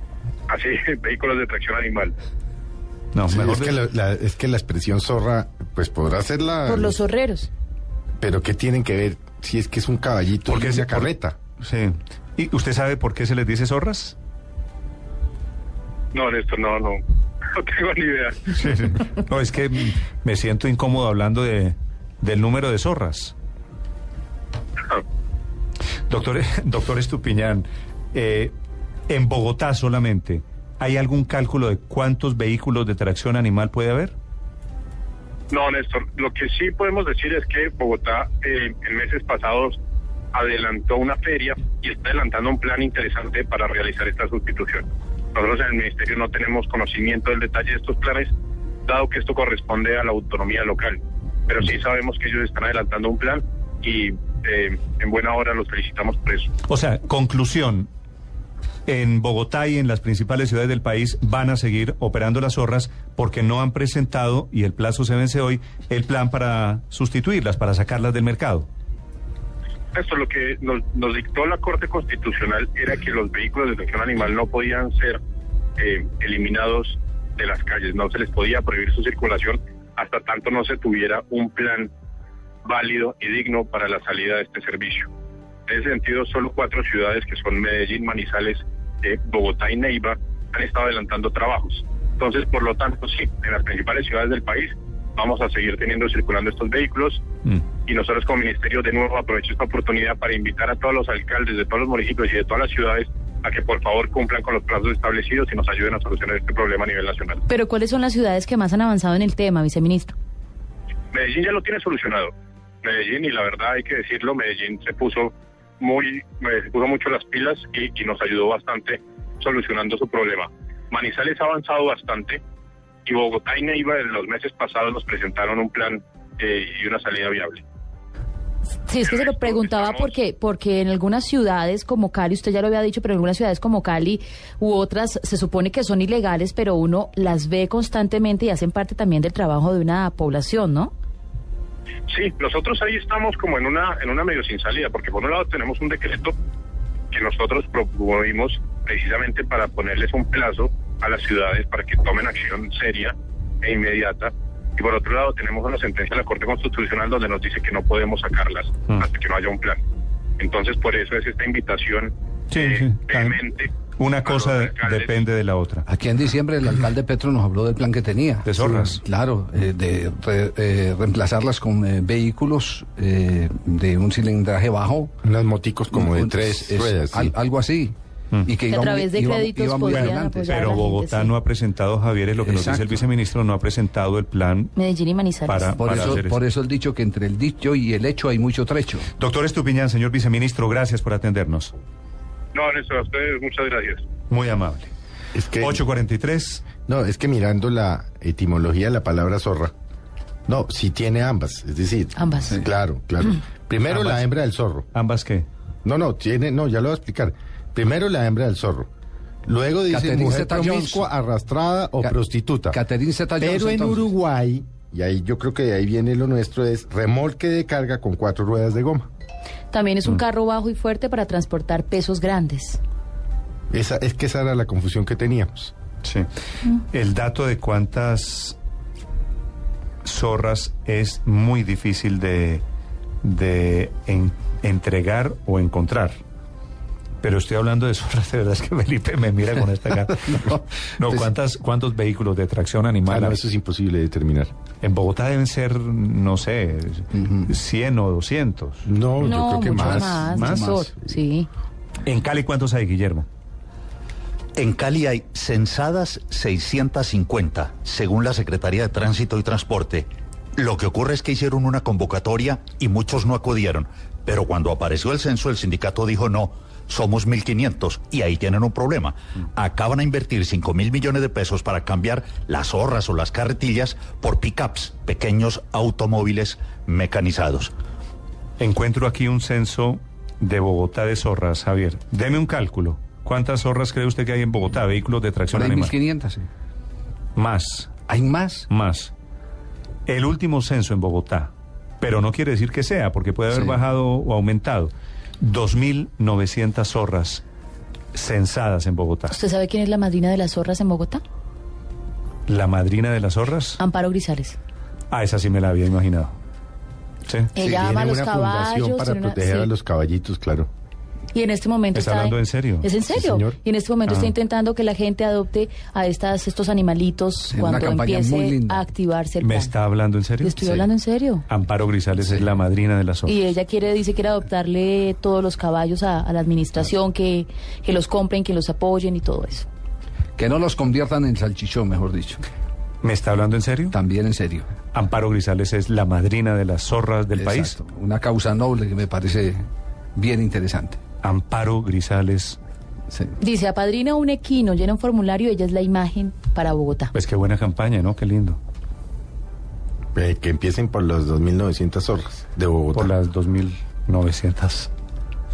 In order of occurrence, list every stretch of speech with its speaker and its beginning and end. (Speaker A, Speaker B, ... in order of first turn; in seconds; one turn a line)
Speaker A: 0.5-2.1
Speaker B: 3.1-3.8
Speaker C: 3.3-7.0
Speaker D: 6.7-7.5
Speaker C: 8.2-11.4
Speaker B: 10.5-14.2
Speaker A: 16.1-17.0
Speaker A: 17.5-18.4
Speaker B: 18.5-23.3
Speaker B: 26.1-28.5
Speaker B: 29.1-34.1
Speaker A: 35.5-39.8
Speaker A: 40.4-48.3
Speaker A: 48.9-56.5
Speaker B: 56.7-57.9
Speaker B: 58.9-68.7
Speaker A: 70.0-75.2
Speaker A: 75.8-81.9
Speaker A: 82.7-85.1
Speaker A: 85.7-97.2
Speaker A: 97.9-107.4
Speaker D: 107.5-110.1
Speaker A: 111.1-112.3
Speaker A: 112.8-122.4
Speaker A: 123.1-127.6
Speaker D: 128.9-140.9
Speaker A: 129.1-130.0
Speaker A: 142.1-146.3
Speaker A: 147.1-159.8
Speaker A: 160.4-163.7
Speaker B: 162.5-165.8
Speaker A: 164.3-165.1
Speaker E: 165.9-175.2
Speaker B: 168.5-169.0
Speaker C: 175.2-177.3
Speaker E: 175.9-180.7
Speaker D: 178.7-181.3
Speaker B: 179.9-184.8
Speaker E: 182.4-183.0
Speaker D: 184.8-185.8
Speaker B: 185.4-186.4
Speaker E: 185.8-189.1
Speaker B: 189.2-191.7
Speaker A: 192.6-194.0
Speaker B: 194.3-194.9
Speaker C: 195.3-195.8
Speaker B: 195.6-196.6
Speaker C: 196.9-199.7
Speaker C: 200.5-204.9
Speaker D: 202.2-202.6
Speaker B: 203.9-204.3
Speaker B: 204.9-205.5
Speaker C: 205.8-208.9
Speaker C: 209.5-212.8
Speaker E: 209.9-211.1
Speaker E: 212.7-214.1
Speaker C: 213.4-219.1
Speaker D: 219.7-222.8
Speaker C: 223.7-225.7
Speaker B: 226.9-228.6
Speaker B: 230.0-232.6
Speaker B: 233.2-236.2
Speaker B: 237.2-243.4
Speaker C: 243.1-244.5
Speaker B: 244.8-250.7
Speaker C: 248.8-250.5
Speaker D: 249.2-251.5
Speaker E: 250.5-250.8
Speaker B: 252.1-253.3
Speaker F: 254.6-277.7
Speaker B: 278.6-285.9
Speaker E: 285.5-286.5
Speaker B: 287.4-287.9
Speaker E: 288.1-288.7
Speaker B: 288.7-289.1
Speaker B: 290.1-291.5
Speaker B: 292.0-297.4
Speaker E: 293.5-293.8
Speaker B: 298.1-299.4
Speaker D: 299.3-301.2
Speaker B: 302.5-303.8
Speaker D: 303.8-304.6
Speaker B: 305.1-306.3
Speaker B: 307.3-307.5
Speaker D: 307.6-309.7
Speaker C: 307.6-310.7
Speaker D: 311.3-319.7
Speaker B: 311.9-312.9
Speaker C: 313.1-313.6
Speaker E: 317.5-318.8
Speaker B: 319.4-320.6
Speaker D: 320.4-321.4
Speaker E: 320.6-320.9
Speaker B: 321.5-323.4
Speaker D: 323.3-329.7
Speaker E: 330.4-332.4
Speaker B: 333.0-333.9
Speaker E: 333.9-334.7
Speaker B: 334.9-337.8
Speaker E: 337.4-341.0
Speaker B: 341.2-342.6
Speaker D: 343.4-347.1
Speaker B: 347.1-348.6
Speaker C: 350.1-353.1
Speaker B: 352.9-354.9